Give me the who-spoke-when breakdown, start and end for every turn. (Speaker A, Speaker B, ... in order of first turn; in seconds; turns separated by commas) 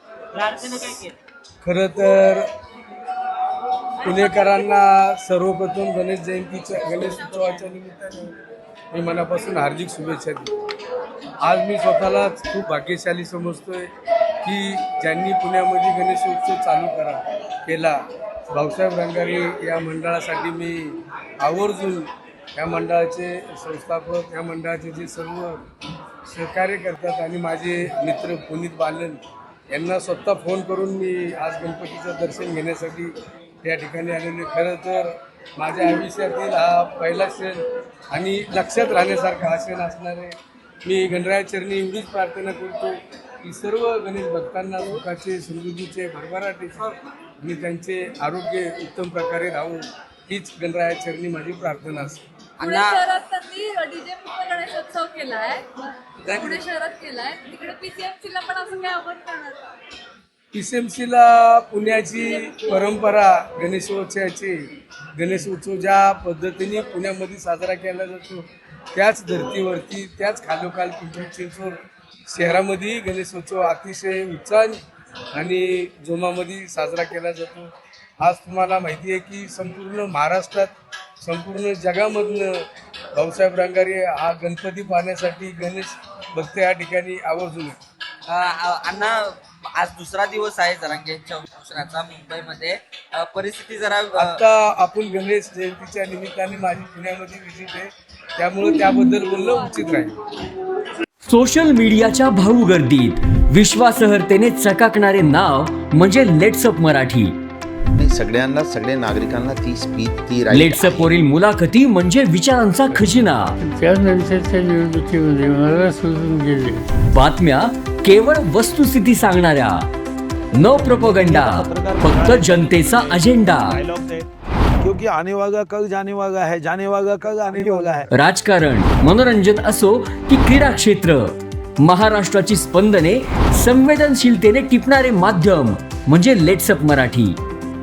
Speaker A: 0.4-1.1, Speaker B: 1.6-2.5, Speaker B: 4.0-8.3, Speaker B: 8.9-10.5, Speaker B: 11.4-13.9, Speaker B: 14.4-18.0, Speaker B: 18.5-25.6, Speaker B: 26.3-46.9, Speaker B: 47.4-52.2, Speaker C: 52.6-59.6, Speaker A: 52.6-53.0, Speaker B: 56.3-56.6, Speaker B: 60.5-71.8, Speaker B: 72.3-74.8, Speaker B: 75.3-77.7, Speaker B: 78.2-80.7, Speaker B: 81.2-82.6, Speaker B: 83.2-87.8, Speaker A: 88.3-94.4, Speaker B: 94.2-100.2, Speaker D: 101.2-107.4, Speaker E: 108.0-111.1, Speaker D: 110.5-113.6, Speaker F: 112.9-116.9, Speaker D: 117.1-119.8, Speaker D: 120.5-123.8, Speaker G: 120.7-124.2, Speaker G: 124.8-128.1, Speaker F: 127.6-128.0, Speaker D: 128.1-137.3